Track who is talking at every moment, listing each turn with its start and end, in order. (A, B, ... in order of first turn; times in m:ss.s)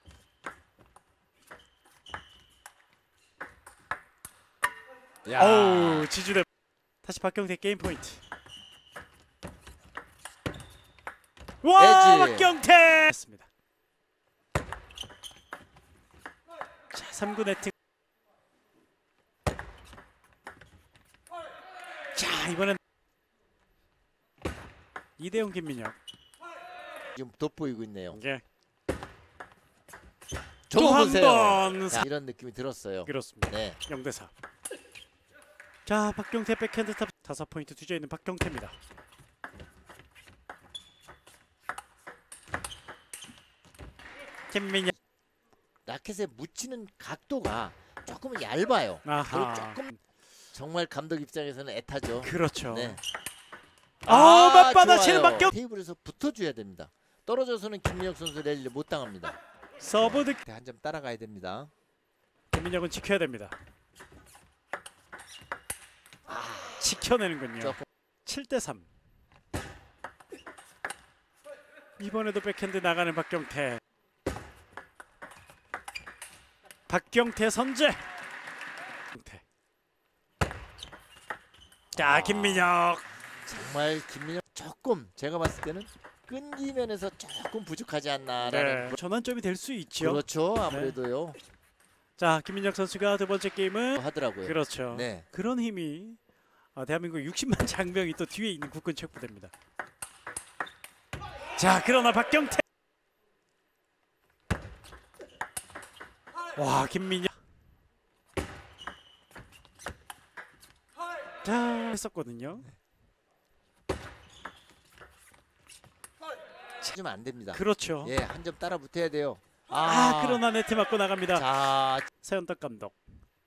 0:05.2-0:06.1 A
0:05.4-0:06.5 B
0:07.0-0:08.2 B
0:11.6-0:13.5 B
0:11.8-0:12.6 A
0:16.9-0:17.7 B
0:22.1-0:22.8 B
0:25.2-0:26.0 B
0:27.1-0:28.2 A
0:28.1-0:28.4 B
0:30.7-0:33.8 A
0:30.7-0:32.1 B
0:33.1-0:34.3 B
0:35.9-0:38.8 B
0:44.5-0:44.9 B
0:45.9-0:49.9 A
0:49.0-0:50.0 B
0:50.5-0:53.0 A
0:52.2-0:53.0 B
0:54.0-0:59.4 A
0:54.0-0:55.5 B
0:59.8-1:00.4 B
1:00.0-1:01.7 A
1:02.5-1:03.6 B
1:06.3-1:06.9 A
1:06.8-1:08.9 B
1:07.6-1:07.9 A
1:12.0-1:13.8 B
1:16.9-1:18.0 B
1:19.1-1:19.4 B
1:21.9-1:23.1 B
1:22.0-1:22.7 A
1:23.5-1:29.0 A
1:28.4-1:31.0 B
1:30.0-1:31.4 A
1:32.2-1:36.2 B
1:34.0-1:35.3 A
1:36.8-1:39.5 B
1:41.6-1:42.6 B
1:46.6-1:47.3 B
1:51.4-1:52.7 B
1:56.8-2:00.4 A
1:57.5-1:58.2 B
1:59.7-2:01.5 B
2:01.3-2:02.1 A
2:02.2-2:03.0 B